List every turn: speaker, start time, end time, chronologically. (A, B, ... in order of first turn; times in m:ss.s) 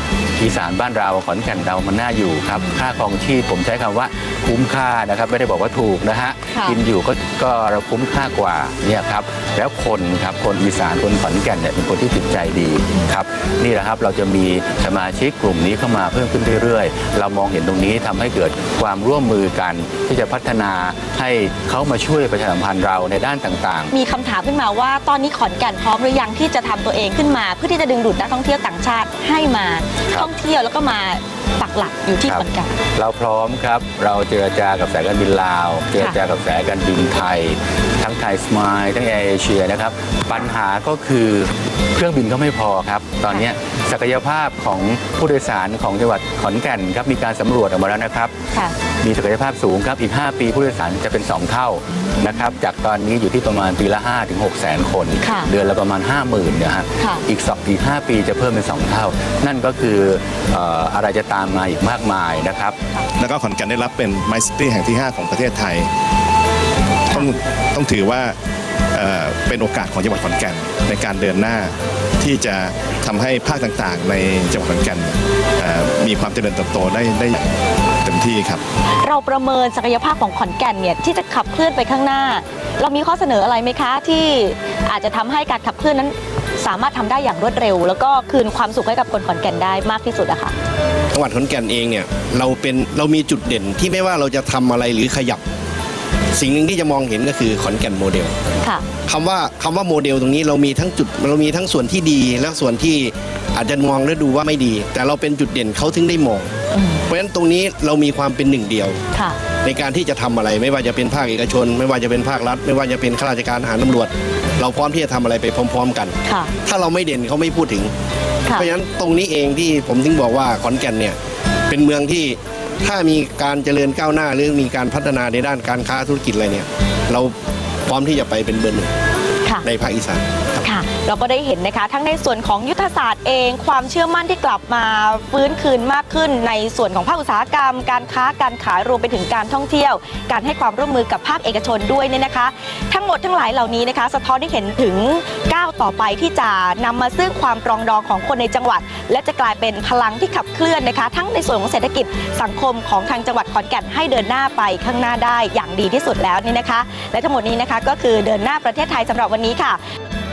0:00.4-0:23.9 A
0:06.5-0:06.8 B
0:23.9-0:32.8 B
0:32.2-0:48.3 A
0:49.0-1:02.8 A
0:52.2-0:52.5 B
0:55.2-0:55.5 B
1:03.2-1:05.9 C
1:07.2-1:08.3 C
1:08.9-1:17.4 C
1:18.0-1:18.6 C
1:19.0-1:30.5 B
1:31.1-1:35.4 D
1:36.3-1:38.4 D
1:39.1-1:46.5 D
1:46.7-1:47.0 B
1:47.1-1:49.0 D
1:49.6-1:57.9 D
1:58.5-2:01.2 D
2:01.7-2:07.3 D
2:07.8-2:08.9 D
2:09.6-2:10.7 D
2:10.6-2:39.8 B